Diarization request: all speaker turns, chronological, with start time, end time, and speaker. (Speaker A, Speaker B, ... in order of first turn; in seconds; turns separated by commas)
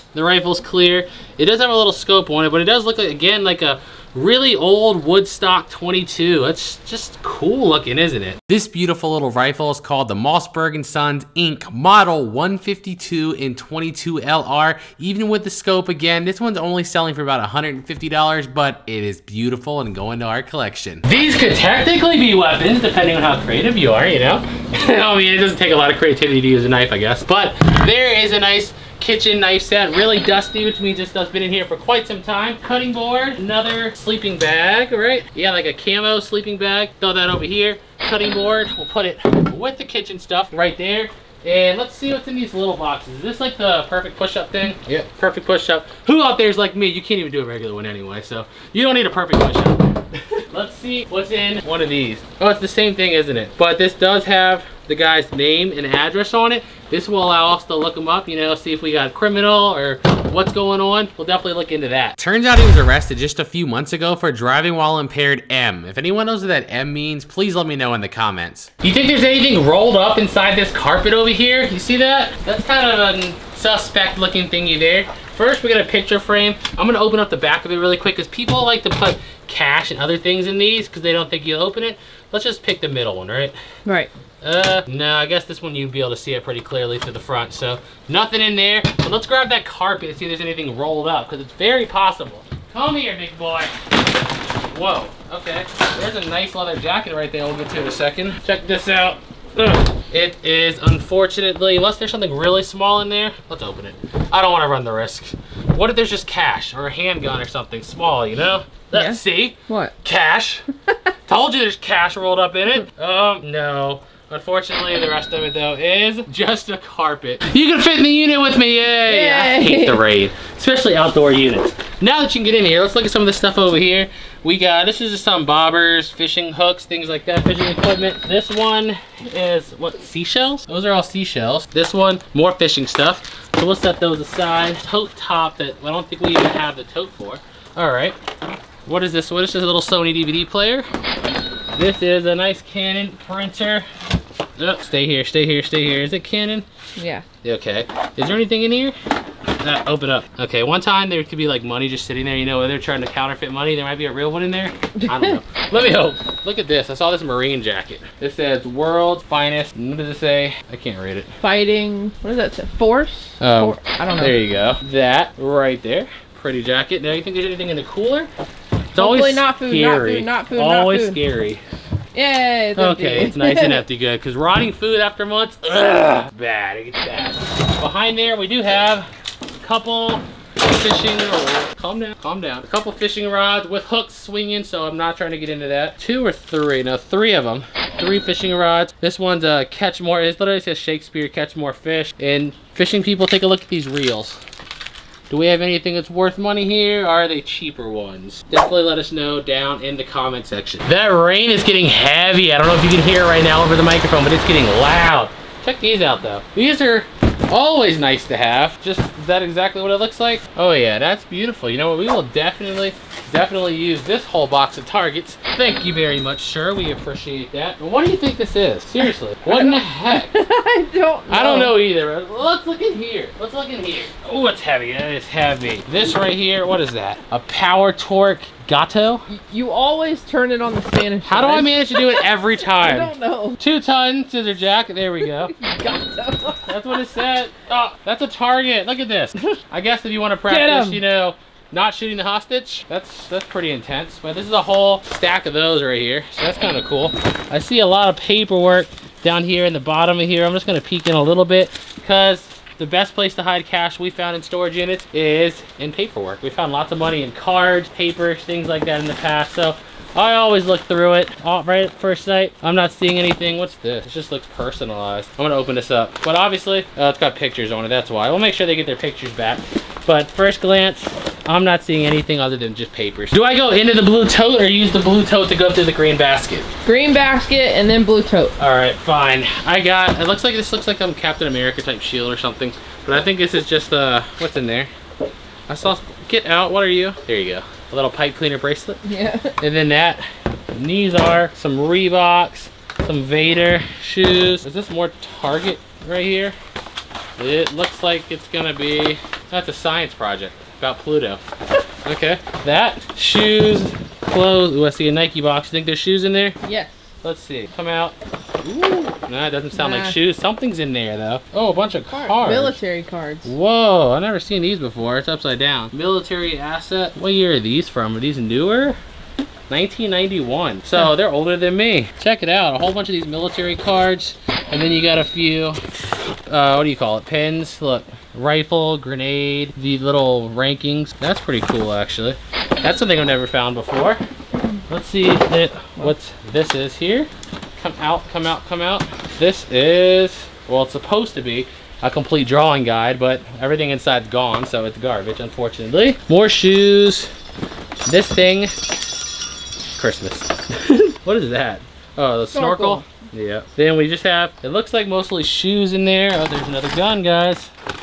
Speaker A: 0.1-83.5, Speaker B: 83.8-84.1, Speaker A: 84.4-94.0, Speaker A: 94.7-110.6, Speaker B: 108.9-109.9, Speaker A: 111.3-138.2, Speaker B: 119.0-120.0, Speaker A: 138.8-140.9, Speaker A: 141.7-143.9, Speaker A: 144.6-146.7, Speaker B: 146.9-147.2, Speaker A: 147.4-148.9, Speaker A: 149.6-161.3, Speaker B: 161.4-164.3, Speaker A: 163.4-168.3, Speaker B: 168.9-171.2, Speaker A: 168.9-171.6, Speaker B: 172.1-173.8, Speaker A: 172.8-179.1, Speaker A: 179.6-194.4, Speaker A: 195.3-220.3, Speaker B: 219.4-221.7, Speaker A: 221.3-229.2, Speaker B: 229.3-233.6, Speaker A: 231.2-235.5, Speaker B: 235.4-236.7, Speaker A: 236.6-276.7, Speaker B: 240.5-241.0, Speaker B: 276.8-278.5, Speaker A: 278.6-284.9, Speaker A: 285.7-289.0, Speaker B: 289.0-289.6, Speaker A: 289.6-290.2, Speaker A: 290.7-296.6, Speaker A: 297.4-301.4, Speaker A: 302.0-306.6, Speaker B: 306.6-307.0, Speaker A: 307.2-312.8, Speaker B: 309.7-310.1, Speaker B: 312.1-313.5, Speaker A: 313.4-319.0, Speaker A: 319.7-325.8, Speaker A: 326.5-334.2, Speaker A: 334.9-347.3, Speaker A: 348.1-348.7, Speaker A: 349.9-357.7, Speaker B: 352.5-353.1